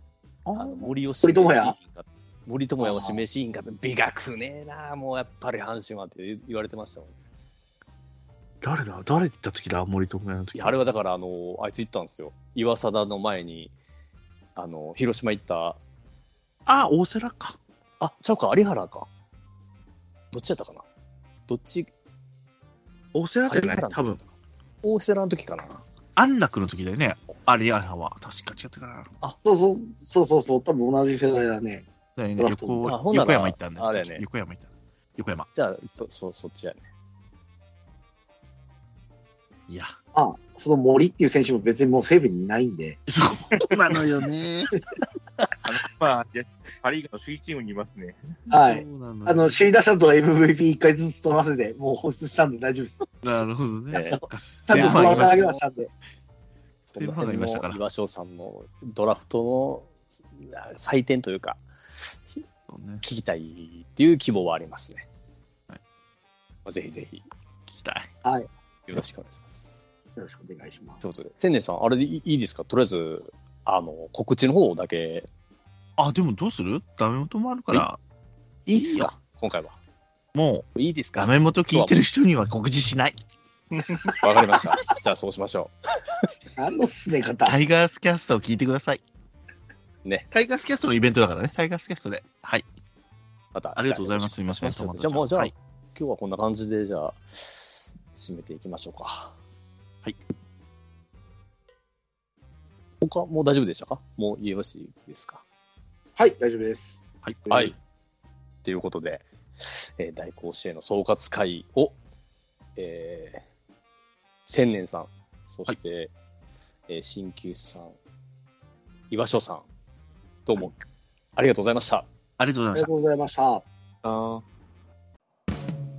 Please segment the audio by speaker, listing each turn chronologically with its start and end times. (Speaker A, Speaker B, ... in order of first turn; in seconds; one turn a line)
Speaker A: 0.4-0.9
Speaker B: 0.5-7.2
Speaker C: 1.2-1.7
Speaker C: 2.8-3.2
Speaker A: 8.6-10.8
Speaker B: 10.5-13.7
Speaker B: 14.6-15.8
Speaker A: 16.6-17.6
Speaker B: 18.0-19.1
Speaker B: 20.3-20.8
Speaker B: 21.5-21.9
Speaker A: 23.1-24.2
Speaker B: 23.5-24.3
Speaker B: 24.8-25.8
Speaker A: 26.1-29.1
Speaker C: 29.4-31.9
Speaker A: 32.1-35.5
Speaker C: 32.4-32.9
Speaker B: 32.8-34.2
Speaker B: 35.5-36.8
Speaker A: 39.7-39.9
Speaker C: 40.1-43.0
Speaker A: 43.1-44.8
Speaker D: 45.6-48.2
Speaker A: 48.5-49.6
Speaker C: 48.5-53.0
Speaker A: 53.2-55.5
Speaker B: 53.9-54.2
Speaker C: 54.0-55.9
Speaker B: 54.7-55.6
Speaker B: 56.9-62.4
Speaker A: 57.0-57.8
Speaker A: 62.7-63.0
Speaker B: 63.0-65.0
Speaker B: 66.7-67.2
Speaker A: 67.7-68.1
Speaker B: 68.9-69.7
Speaker C: 70.2-71.0
Speaker B: 71.0-75.3
Speaker A: 76.0-78.0
Speaker A: 78.7-79.1
Speaker B: 78.7-79.8
Speaker A: 80.3-83.2
Speaker B: 80.8-82.0
Speaker D: 83.7-84.1
Speaker B: 84.1-86.3
Speaker C: 86.6-87.6
Speaker A: 87.4-89.0
Speaker A: 90.3-92.6
Speaker B: 93.5-99.3
Speaker A: 93.8-95.5
Speaker B: 103.0-105.4
Speaker C: 106.2-107.7
Speaker A: 107.2-107.7
Speaker B: 107.5-107.7
Speaker B: 108.6-112.0
Speaker B: 112.8-113.4
Speaker B: 114.5-116.1
Speaker B: 116.9-117.9
Speaker B: 119.1-119.7
Speaker B: 120.5-120.8
Speaker B: 121.3-122.1
Speaker A: 122.4-122.9
Speaker C: 122.7-123.6
Speaker D: 124.0-124.4